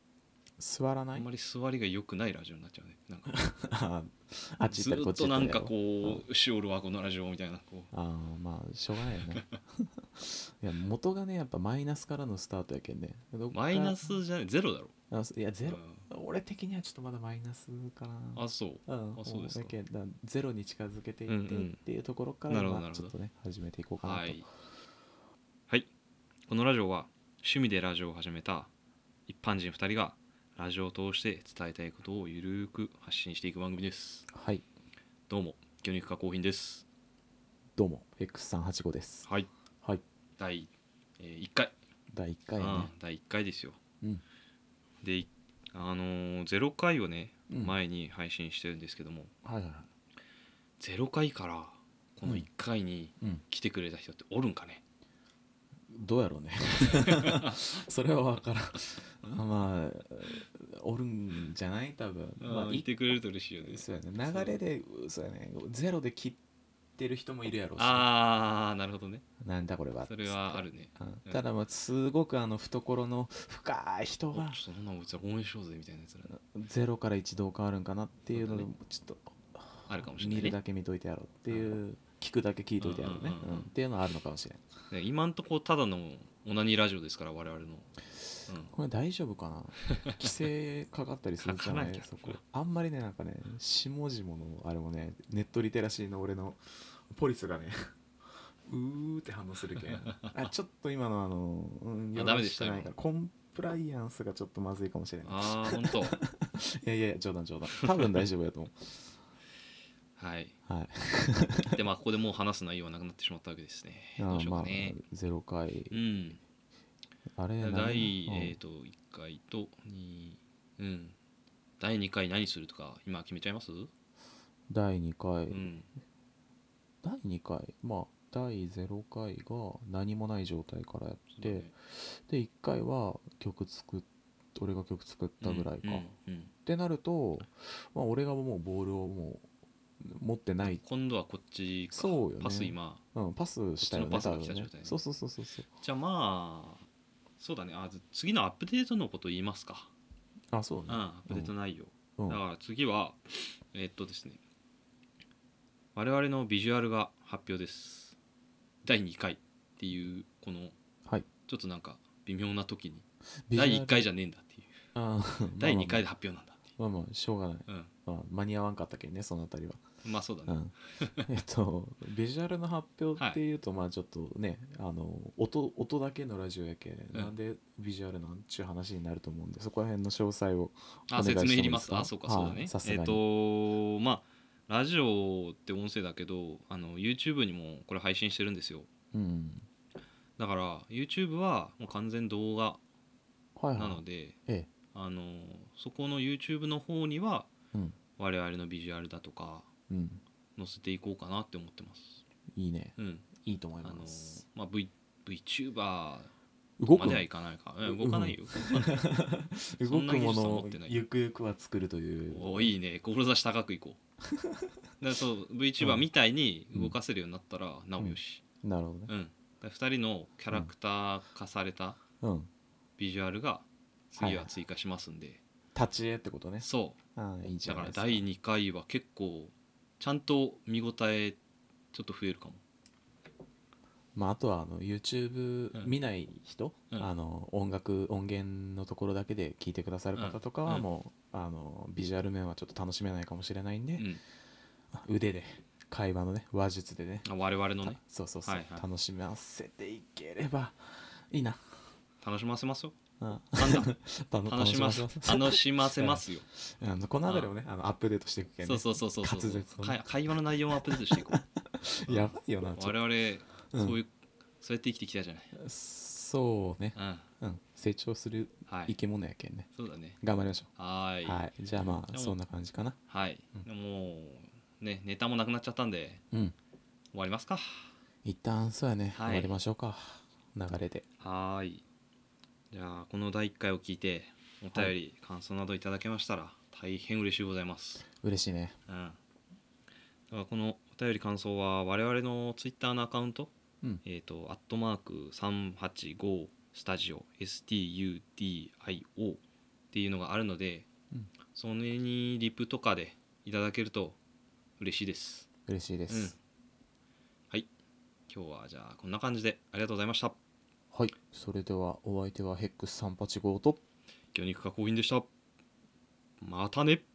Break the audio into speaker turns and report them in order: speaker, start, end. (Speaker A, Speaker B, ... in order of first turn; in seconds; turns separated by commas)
Speaker A: 0.6-1.3, Speaker B: 1.1-3.4, Speaker A: 3.3-6.2, Speaker B: 4.6-7.9, Speaker A: 7.9-14.1, Speaker B: 13.5-14.9, Speaker A: 15.1-24.5, Speaker B: 15.6-16.1, Speaker B: 18.3-19.7, Speaker B: 21.3-21.8, Speaker B: 22.5-23.1, Speaker B: 24.0-24.5, Speaker B: 26.5-28.7, Speaker B: 29.3-34.3, Speaker A: 34.3-34.6, Speaker B: 35.3-36.9, Speaker A: 37.8-39.3, Speaker B: 40.4-41.7, Speaker A: 42.1-42.9, Speaker B: 42.6-43.8, Speaker B: 45.0-49.3, Speaker A: 47.5-47.8, Speaker A: 49.4-49.9, Speaker B: 50.8-54.8, Speaker A: 55.9-66.4, Speaker B: 57.0-57.5, Speaker B: 62.4-64.6, Speaker A: 67.0-68.1, Speaker B: 67.8-69.2, Speaker A: 69.4-74.6, Speaker B: 70.1-71.4, Speaker B: 74.3-76.4, Speaker A: 76.3-84.6, Speaker B: 78.3-78.7, Speaker B: 79.9-80.5, Speaker B: 81.5-81.8, Speaker B: 82.8-83.7, Speaker B: 84.9-87.9, Speaker B: 88.5-88.7, Speaker A: 88.6-97.8, Speaker B: 91.4-92.4, Speaker A: 98.7-109.1, Speaker B: 100.0-100.3, Speaker B: 102.1-102.9, Speaker B: 105.2-106.2, Speaker B: 110.2-110.5, Speaker A: 110.7-111.8, Speaker B: 111.7-115.0, Speaker A: 114.2-116.0, Speaker B: 115.9-116.4, Speaker A: 117.3-118.6, Speaker B: 117.6-121.2, Speaker B: 121.8-123.9, Speaker A: 124.7-125.7, Speaker B: 125.5-125.9, Speaker A: 127.0-136.1, Speaker B: 131.3-131.7, Speaker B: 135.4-136.5, Speaker A: 136.7-139.5, Speaker A: 140.0-140.8, Speaker B: 140.6-143.0, Speaker A: 141.9-145.7, Speaker B: 143.8-145.0, Speaker B: 145.8-146.8, Speaker B: 147.4-149.9, Speaker A: 150.5-151.5, Speaker B: 150.9-154.4, Speaker B: 155.9-158.2, Speaker B: 158.8-160.7, Speaker B: 161.4-164.8, Speaker A: 163.5-164.1, Speaker A: 164.9-166.1, Speaker B: 165.6-166.6, Speaker A: 166.8-169.8, Speaker B: 167.7-167.9, Speaker B: 170.0-171.3, Speaker A: 170.5-183.2, Speaker B: 181.1-188.9, Speaker A: 189.1-189.7, Speaker B: 190.4-192.8, Speaker A: 193.6-194.7, Speaker B: 193.7-194.4, Speaker B: 194.9-197.5, Speaker B: 198.2-199.7, Speaker A: 199.9-200.2, Speaker B: 200.6-202.2, Speaker A: 202.5-204.4, Speaker B: 202.9-203.3, Speaker B: 203.8-206.3, Speaker A: 206.8-207.2, Speaker B: 206.9-209.0, Speaker A: 207.8-212.7, Speaker B: 209.8-211.0, Speaker B: 212.3-214.0, Speaker A: 214.3-214.7, Speaker B: 215.0-218.4, Speaker A: 215.8-216.1, Speaker A: 218.0-219.1, Speaker B: 219.1-222.0, Speaker A: 222.2-222.5, Speaker B: 223.0-225.4, Speaker A: 224.2-224.6, Speaker A: 225.7-228.2, Speaker B: 226.6-227.0, Speaker B: 227.6-231.4, Speaker B: 231.9-232.6, Speaker A: 234.1-244.1, Speaker B: 240.2-240.8, Speaker B: 244.0-244.2, Speaker A: 244.9-247.3, Speaker B: 247.2-248.9, Speaker A: 247.8-251.8, Speaker B: 252.2-252.9, Speaker A: 253.2-260.1, Speaker B: 253.6-253.9, Speaker B: 254.4-256.4, Speaker B: 258.6-261.4, Speaker A: 261.1-263.0, Speaker B: 262.1-265.5, Speaker A: 263.7-264.0, Speaker A: 265.5-269.7, Speaker B: 266.9-267.3, Speaker B: 268.7-268.9, Speaker B: 269.7-270.2, Speaker A: 270.2-270.7, Speaker B: 270.8-271.4, Speaker A: 271.2-273.0, Speaker B: 272.1-272.4, Speaker B: 273.1-276.2, Speaker B: 277.1-277.9, Speaker A: 278.2-281.0, Speaker B: 279.1-279.6, Speaker B: 281.2-281.8, Speaker B: 282.7-288.0, Speaker A: 288.2-288.8, Speaker B: 288.9-289.2, Speaker B: 290.3-293.5, Speaker B: 294.0-300.9, Speaker B: 301.5-304.2, Speaker B: 304.8-305.5, Speaker A: 305.7-306.3, Speaker B: 306.1-306.4, Speaker B: 308.3-310.4, Speaker A: 310.9-313.8, Speaker B: 314.3-315.3, Speaker B: 316.4-317.0